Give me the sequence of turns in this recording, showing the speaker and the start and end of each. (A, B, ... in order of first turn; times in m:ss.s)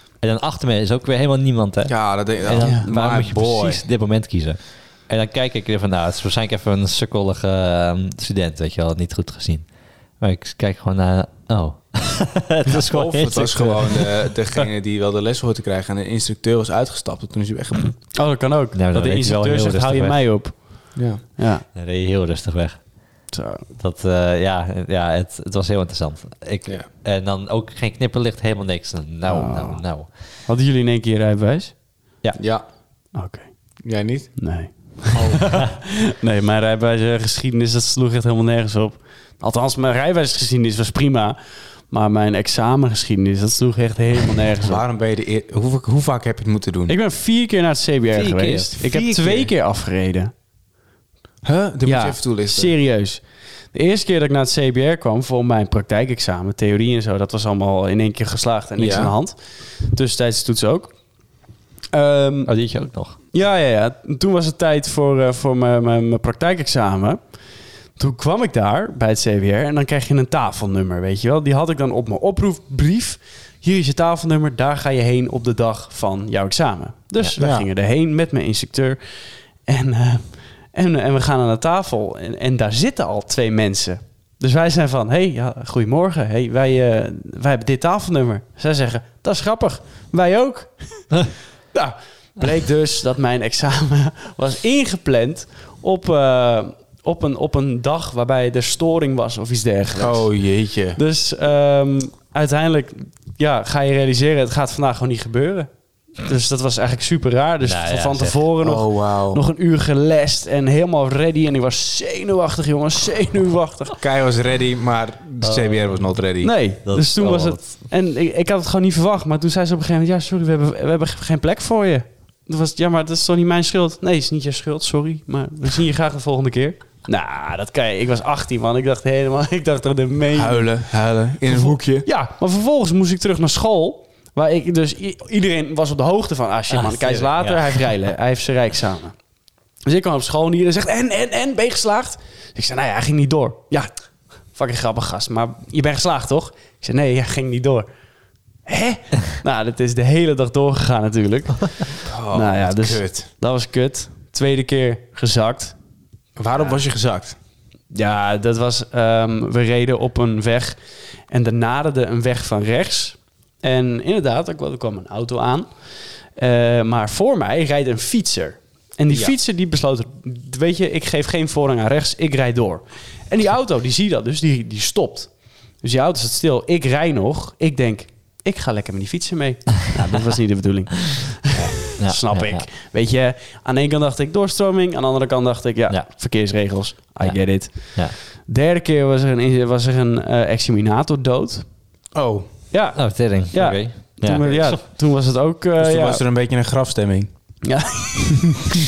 0:00.2-0:14.7 A
0:01.9-0:03.8 B
0:02.6-0:02.9 C
0:12.7-0:18.0 B
0:18.1-0:21.7 C
0:18.7-0:20.2 A
0:21.0-0:21.2 B
0:21.7-0:23.0 A
0:23.3-0:23.6 C
0:23.8-0:30.1 A
0:29.2-0:31.8 C
0:32.4-0:32.6 B
0:33.1-0:33.8 C
0:33.8-0:35.6 B
0:34.4-0:41.4 C
0:35.3-0:35.6 A
0:41.9-0:44.8 C
0:44.6-0:47.0 B
0:46.9-0:50.3 C
0:48.1-0:49.5 A
0:51.4-0:52.8 B
0:51.8-1:01.0 C
0:58.8-0:59.1 B
1:01.9-1:02.5 C
1:02.5-1:03.2 A
1:03.3-1:07.2 C
1:08.0-1:40.3 C
1:17.4-1:17.7 B
1:40.0-1:41.0 B
1:41.0-1:54.0 C
1:47.6-1:48.4 A
1:48.6-1:49.4 B
1:54.0-1:56.5 B
1:55.4-1:56.2 A
1:56.4-2:10.8 C
1:56.8-1:57.7 A
2:10.4-2:12.1 B
2:11.5-2:19.2 C
2:16.7-2:18.1 A
2:19.9-2:23.9 C
2:24.5-2:27.9 C
2:28.6-2:35.8 C
2:32.0-2:33.3 B
2:36.4-2:37.4 B
2:37.9-2:45.7 C
2:46.4-3:11.7 C
3:01.8-3:02.7 A
3:07.2-3:08.2 A
3:12.1-3:12.5 B
3:12.7-3:16.2 C
3:13.0-3:14.8 A
3:15.8-3:17.3 B
3:17.6-3:18.7 C